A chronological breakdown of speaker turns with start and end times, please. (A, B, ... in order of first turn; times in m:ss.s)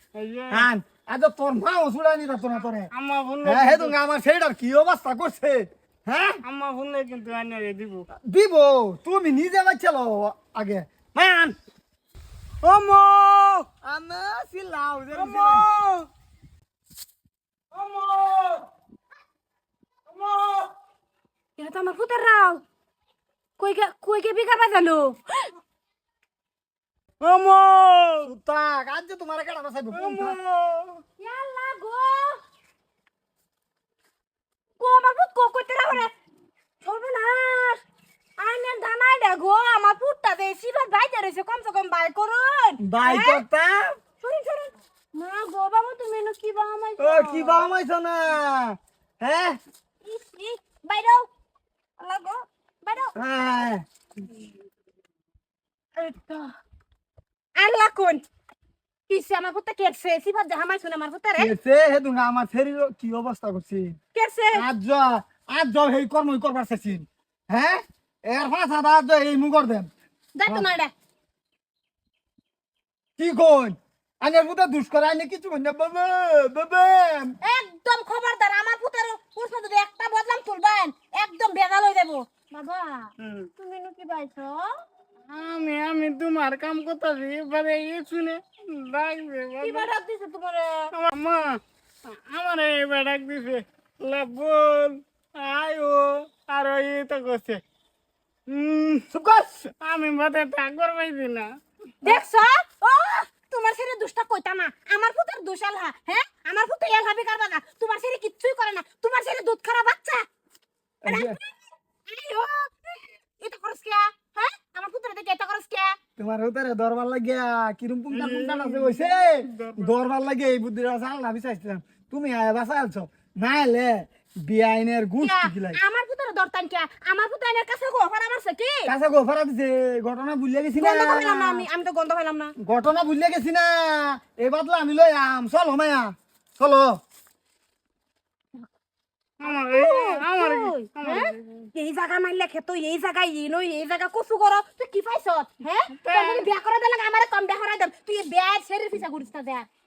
0:00.1-0:00.7 A
0:00.5-0:02.9 B
0:02.9-0:03.9 A
0:03.4-0:06.4 B
0:06.4-0:08.1 A
0:08.2-0:11.5 B
0:12.6-0:13.7 A
0:13.8-0:15.7 B
0:15.1-0:16.1 A
0:17.7-0:18.6 A
0:20.1-0:20.7 A
0:21.6-0:22.6 C
0:23.6-0:25.5 C
0:27.2-0:28.3 A
0:28.2-0:30.4 B
0:29.9-0:31.0 A
0:31.2-0:32.4 C
0:34.8-0:36.1 C
0:36.8-0:37.8 C
0:38.4-0:43.4 C
0:42.8-0:44.0 B
0:44.2-0:47.7 C
0:47.0-0:49.6 B
0:50.0-0:51.3 C
0:52.0-0:53.1 C
0:53.2-0:53.8 B
0:57.6-0:58.3 C
0:59.1-1:01.5 C
1:01.4-1:04.0 B
1:04.1-1:04.7 C
1:04.5-1:09.9 B
1:10.3-1:10.9 C
1:13.2-1:17.4 B
1:17.4-1:24.7 C
1:23.2-1:23.5 A
1:25.3-1:29.9 A
1:29.6-1:30.9 C
1:31.0-1:37.6 A
1:38.5-1:39.1 A
1:39.1-1:39.7 B
1:39.8-1:41.5 A
1:42.0-1:50.2 C
1:51.0-1:51.4 B
1:51.1-1:56.0 C
1:56.2-2:05.8 B
1:58.1-1:59.9 A
2:05.2-2:08.9 C
2:08.8-2:11.7 B
2:10.8-2:12.5 C
2:12.6-2:17.0 B
2:19.4-2:21.7 A
2:19.4-2:29.7 C
2:25.9-2:26.5 A